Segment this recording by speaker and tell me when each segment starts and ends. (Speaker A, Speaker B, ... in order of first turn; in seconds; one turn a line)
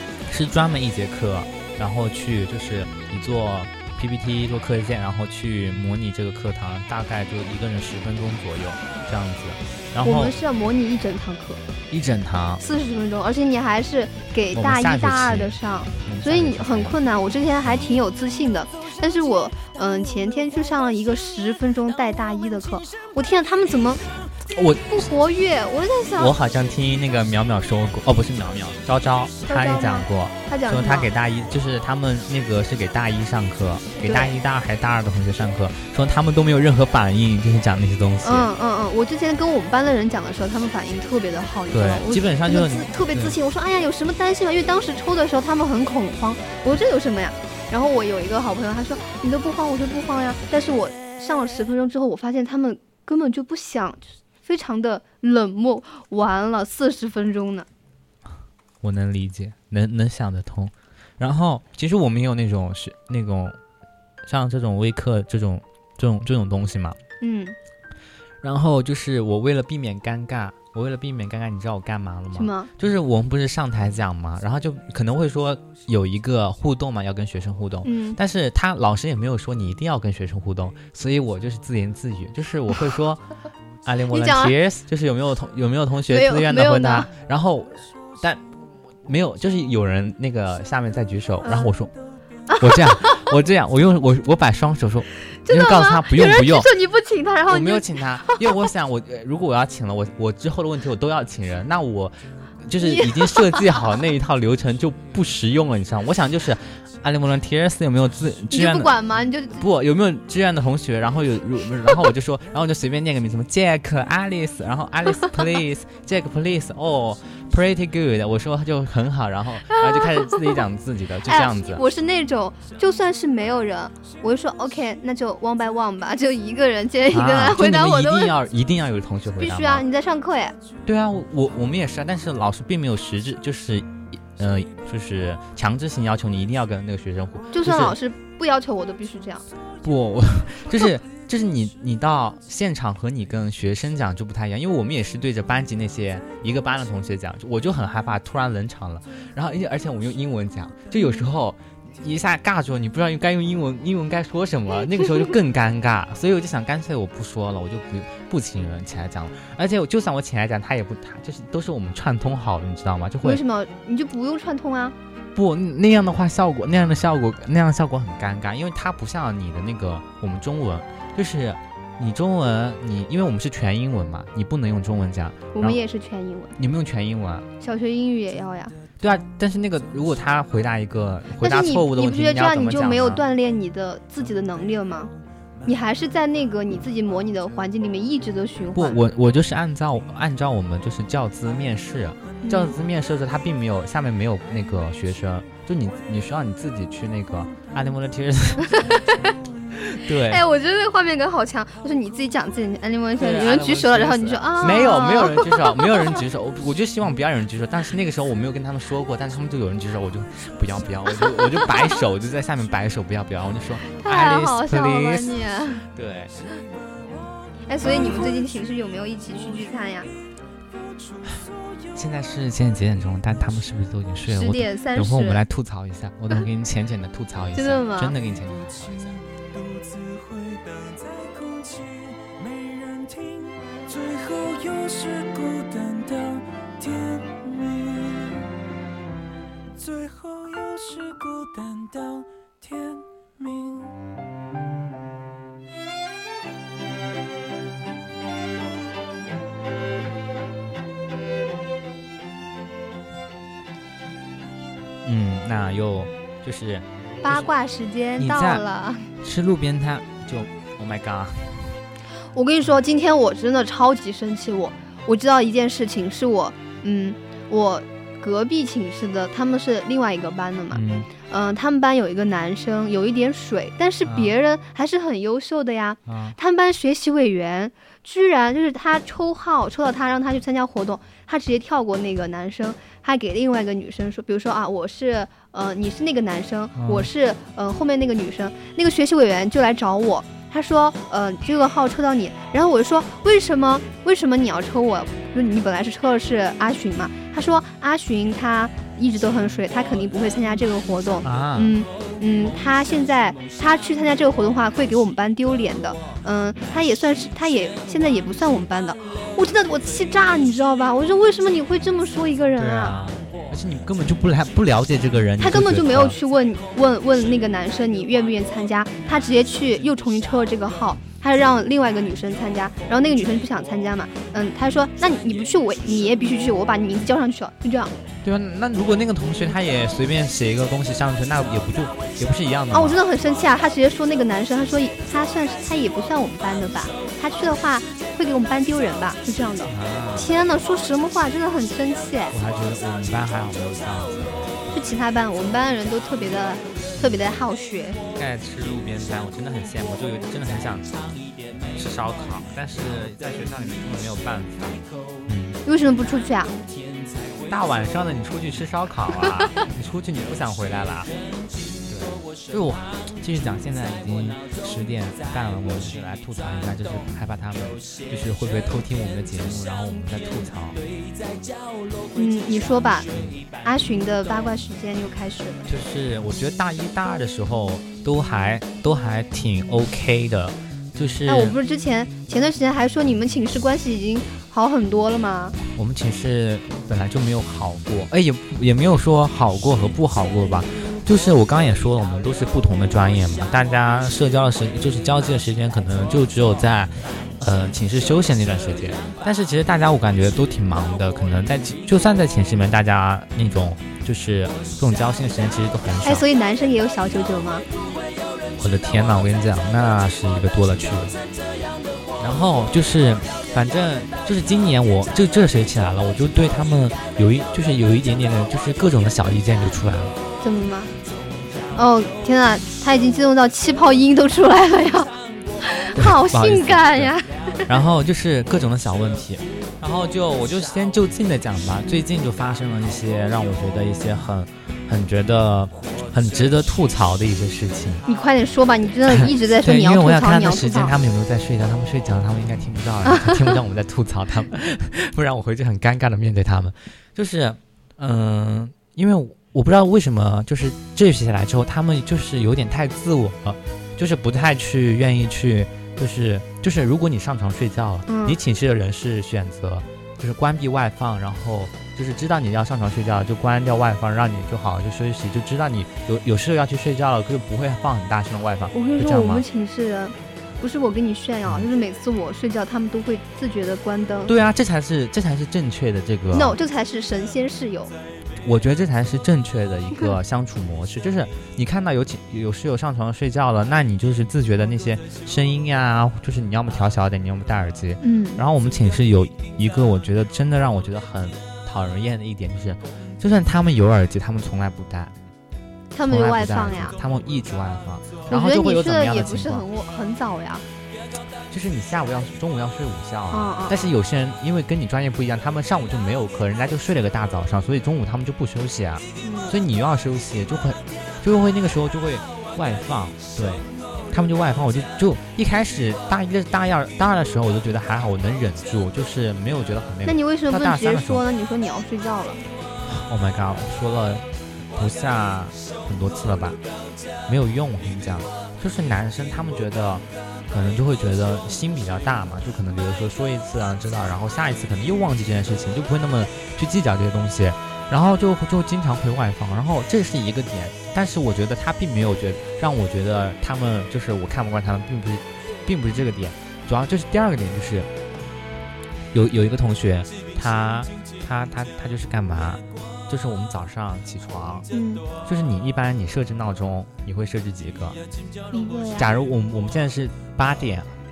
Speaker A: 0.3-10.3
Speaker B: 10.0-11.6
Speaker A: 11.9-12.6
Speaker B: 12.6-24.0
Speaker A: 14.5-17.0
Speaker A: 24.5-25.1
Speaker B: 24.9-26.3
Speaker A: 26.2-38.5
Speaker B: 29.4-31.1
Speaker B: 34.0-34.3
Speaker B: 38.2-57.7
Speaker A: 41.7-43.4
Speaker A: 58.8-63.6
Speaker A: 64.2-67.0
Speaker B: 67.2-67.5
Speaker A: 68.4-83.2
Speaker B: 72.3-72.7
Speaker B: 77.8-78.2
Speaker A: 83.8-88.4
Speaker B: 84.1-84.5
Speaker B: 86.1-87.1
Speaker A: 89.0-91.9
Speaker B: 91.4-91.7
Speaker B: 92.5-93.2
Speaker A: 92.6-96.7
Speaker B: 95.4-98.4
Speaker A: 97.5-109.0
Speaker B: 102.8-103.8
Speaker B: 108.5-109.6
Speaker A: 109.6-121.8
Speaker B: 121.2-128.3
Speaker A: 127.1-129.8
Speaker B: 129.4-130.6
Speaker A: 130.8-138.0
Speaker B: 137.5-139.4
Speaker A: 139.8-163.4
Speaker B: 151.0-151.2
Speaker B: 163.2-164.9
Speaker A: 165.3-175.8
Speaker B: 175.5-176.5
Speaker A: 176.6-177.5
Speaker B: 177.6-178.7
Speaker A: 179.0-183.2
Speaker B: 181.4-185.1
Speaker B: 185.6-189.0
Speaker A: 188.7-198.8
Speaker B: 192.4-192.8
Speaker B: 198.6-199.3
Speaker A: 199.9-200.4
Speaker B: 200.2-206.2
Speaker A: 203.2-215.3
Speaker B: 213.9-215.9
Speaker A: 215.9-216.3
Speaker B: 217.7-220.1
Speaker A: 221.9-229.2
Speaker B: 224.3-225.4
Speaker B: 227.5-228.1
Speaker C: 234.5-236.3
Speaker C: 237.2-237.8
Speaker C: 241.0-242.0
Speaker A: 255.0-257.5
Speaker B: 257.2-259.1
Speaker A: 258.2-258.6
Speaker A: 259.2-261.6
Speaker B: 262.3-313.0
Speaker A: 270.7-271.1
Speaker A: 274.0-274.3
Speaker A: 276.1-276.4
Speaker A: 286.8-287.1
Speaker A: 301.2-301.7
Speaker A: 312.6-316.2
Speaker B: 315.4-327.9
Speaker A: 328.2-333.0
Speaker B: 332.7-342.3
Speaker A: 339.6-340.3
Speaker A: 342.3-344.7
Speaker B: 344.7-348.0
Speaker A: 346.9-347.2
Speaker A: 348.1-351.2
Speaker A: 351.7-355.6
Speaker B: 355.6-356.6
Speaker A: 357.5-361.1
Speaker A: 361.9-370.9
Speaker B: 372.1-373.1
Speaker A: 373.1-373.4
Speaker B: 373.6-375.7
Speaker A: 375.7-381.6
Speaker B: 381.3-385.6
Speaker A: 385.7-406.2
Speaker B: 406.0-407.6
Speaker A: 408.6-411.2
Speaker A: 412.2-420.2
Speaker B: 420.4-420.9
Speaker B: 421.7-427.6
Speaker A: 425.9-438.0
Speaker B: 438.1-440.9
Speaker A: 439.1-469.4
Speaker B: 443.1-443.4
Speaker B: 458.1-458.4
Speaker B: 468.7-474.3
Speaker A: 474.2-476.6
Speaker B: 476.3-477.9
Speaker A: 478.4-495.1
Speaker B: 488.0-488.4
Speaker B: 495.9-496.9
Speaker A: 496.1-499.6
Speaker B: 498.3-500.6
Speaker A: 501.5-521.2
Speaker B: 503.3-503.8
Speaker B: 509.2-509.6
Speaker B: 520.0-522.4
Speaker A: 522.8-526.6
Speaker A: 527.3-547.9
Speaker A: 549.1-554.6
Speaker B: 554.7-555.0
Speaker A: 555.2-558.0
Speaker B: 558.5-559.1
Speaker A: 559.0-560.9